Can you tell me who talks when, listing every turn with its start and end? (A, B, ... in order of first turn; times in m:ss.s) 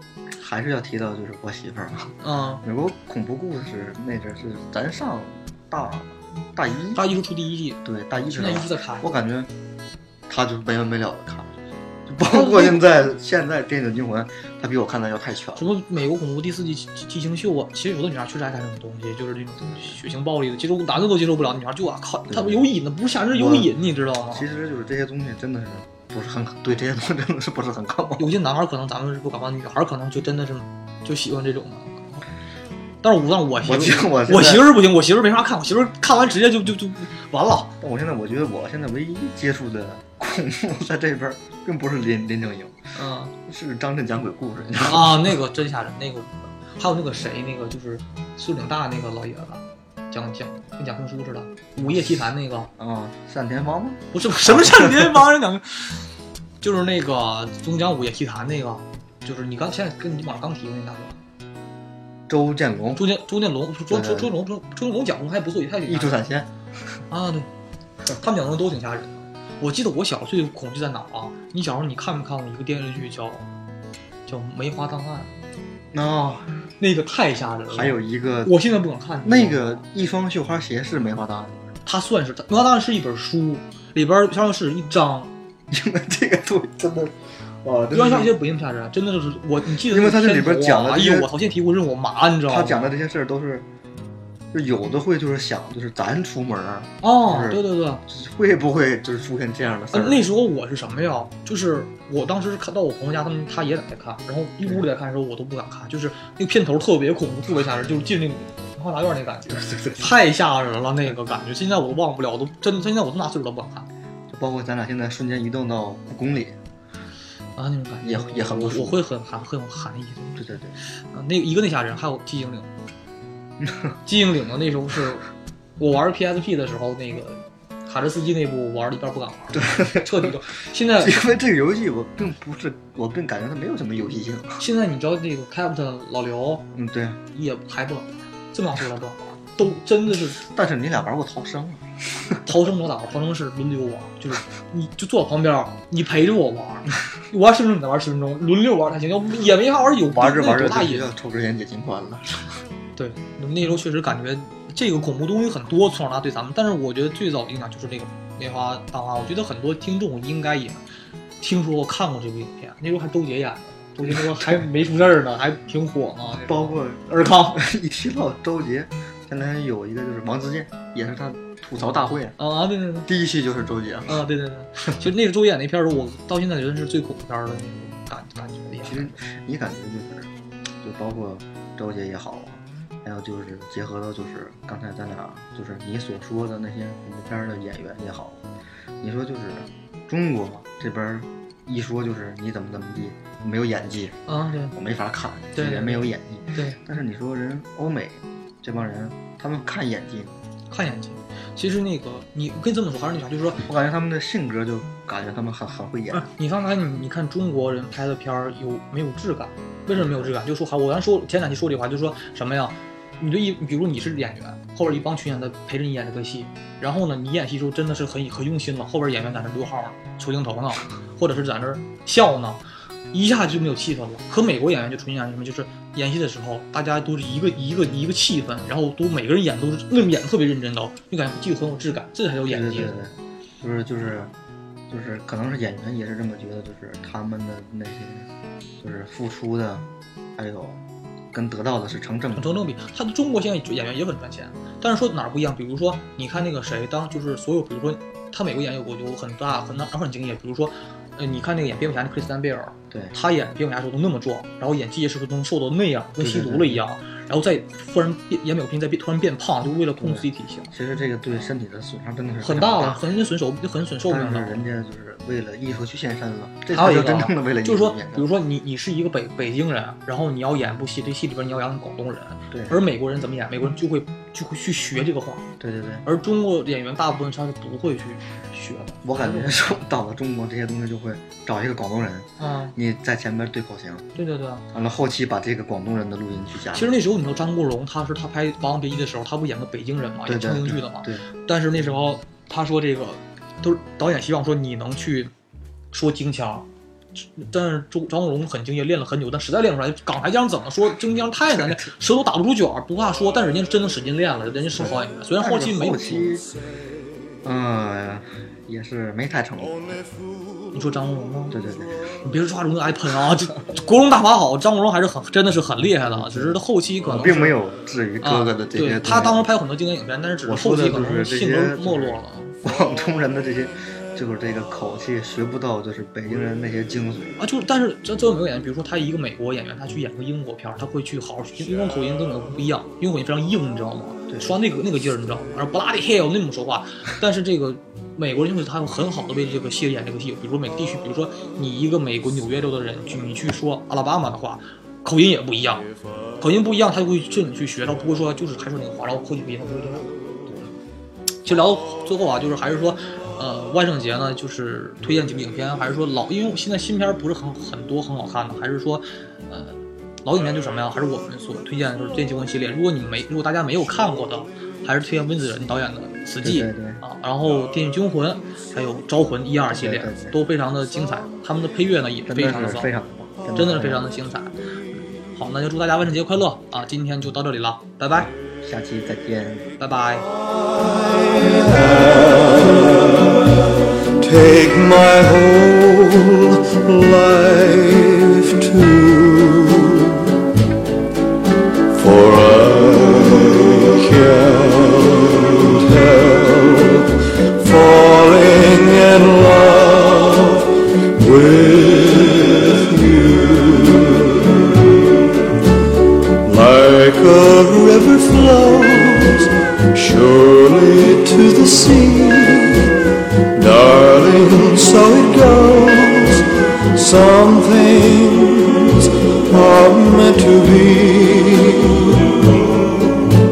0:00.3-0:07.0 A
0:02.2-0:02.6 B
0:06.9-0:09.0 B
0:07.8-0:09.5 A
0:10.3-0:11.5 A
0:12.1-0:15.6 A
0:12.2-0:12.9 B
0:15.6-0:24.4 B
0:22.3-0:22.7 A
0:23.3-0:23.7 A
0:24.3-0:28.3 A
0:28.2-0:32.2 B
0:33.0-0:37.7 B
0:33.6-0:34.6 A
0:37.8-0:42.8 A
0:42.9-0:43.3 B
0:43.4-0:45.3 A
0:44.8-0:52.7 B
0:52.8-0:55.2 A
0:54.1-0:56.0 B
0:56.6-1:01.2 B
1:02.3-1:03.1 A
1:03.0-1:06.2 B
1:03.9-1:04.3 A
1:05.8-1:06.5 A
1:07.1-1:07.5 B
1:08.1-1:13.4 B
1:14.2-1:15.3 B
1:15.9-1:16.5 A
1:16.8-1:19.8 B
1:17.7-1:18.5 A
1:19.2-1:21.7 A
1:21.8-1:25.3 B
1:25.7-1:28.3 A
1:27.9-1:32.9 B
1:29.9-1:31.3 A
1:32.5-1:33.6 A
1:34.5-1:40.3 A
1:37.0-1:38.0 B
1:39.9-1:53.9 B
1:49.5-1:50.1 A
1:54.3-1:56.6 A
1:57.6-2:00.4 B
1:58.0-1:59.0 A
2:00.4-2:00.8 A
2:01.0-2:02.7 B
2:03.6-2:03.9 A
2:04.0-2:05.2 B
2:05.8-2:11.2 B
2:09.5-2:10.3 A
2:11.0-2:14.6 A
2:14.6-2:16.6 B
2:16.7-2:17.2 A
2:17.3-2:20.4 B
2:20.3-2:22.4 A
2:22.4-2:31.1 B
2:30.1-2:32.4 A
2:33.0-2:40.8 B
2:41.4-2:47.6 B
2:44.0-2:44.6 A
2:46.4-2:52.4 A
2:52.4-2:53.1 B
2:53.0-2:54.2 A
2:54.1-2:59.2 B
2:58.8-3:00.3 A
3:00.8-3:08.4 A
3:09.0-3:14.2 A
3:14.3-3:14.7 B
3:14.7-3:20.3 A
3:15.6-3:16.8 B
3:20.7-3:23.6 B
3:23.6-3:26.3 A
3:26.1-3:53.0 B
3:29.9-3:30.3 A
3:52.5-3:54.3 A
3:54.9-3:58.3 A
3:58.8-3:59.8 A
4:00.4-4:00.8 A
4:01.3-4:02.5 A
4:02.3-4:20.7 B
4:16.2-4:16.8 A
4:20.0-4:23.0 A
4:22.4-4:24.5 B
4:24.1-4:28.2 A
4:26.7-4:35.5 B
4:32.5-4:32.8 A
4:35.6-4:36.0 A
4:36.0-4:39.6 B
4:39.0-4:44.0 A
4:42.4-4:42.7 B
4:44.2-4:44.6 B
4:44.7-4:46.9 A
4:46.7-4:55.3 B
4:50.2-4:51.2 A
4:55.9-5:06.3 B
5:01.6-5:01.8 A
5:04.7-5:06.5 A
5:07.4-5:10.0 A
5:10.7-5:11.6 B
5:11.5-5:12.1 A
5:12.2-5:17.6 B
5:16.0-5:19.4 A
5:18.2-5:22.6 B
5:20.4-5:27.4 A
5:27.4-5:45.9 B
5:34.3-5:34.6 A
5:46.4-5:50.7 B
5:51.4-6:12.9 B
6:06.4-6:07.0 A
6:09.7-6:10.4 A
6:12.3-6:14.0 A
6:13.5-6:14.6 B
6:15.3-6:18.3 B
6:18.6-6:19.7 A
6:19.8-6:20.3 B
6:20.7-6:23.6 C
6:24.2-6:30.3 C
6:31.9-6:45.2 C
6:46.4-6:52.9 C
6:53.5-7:03.3 C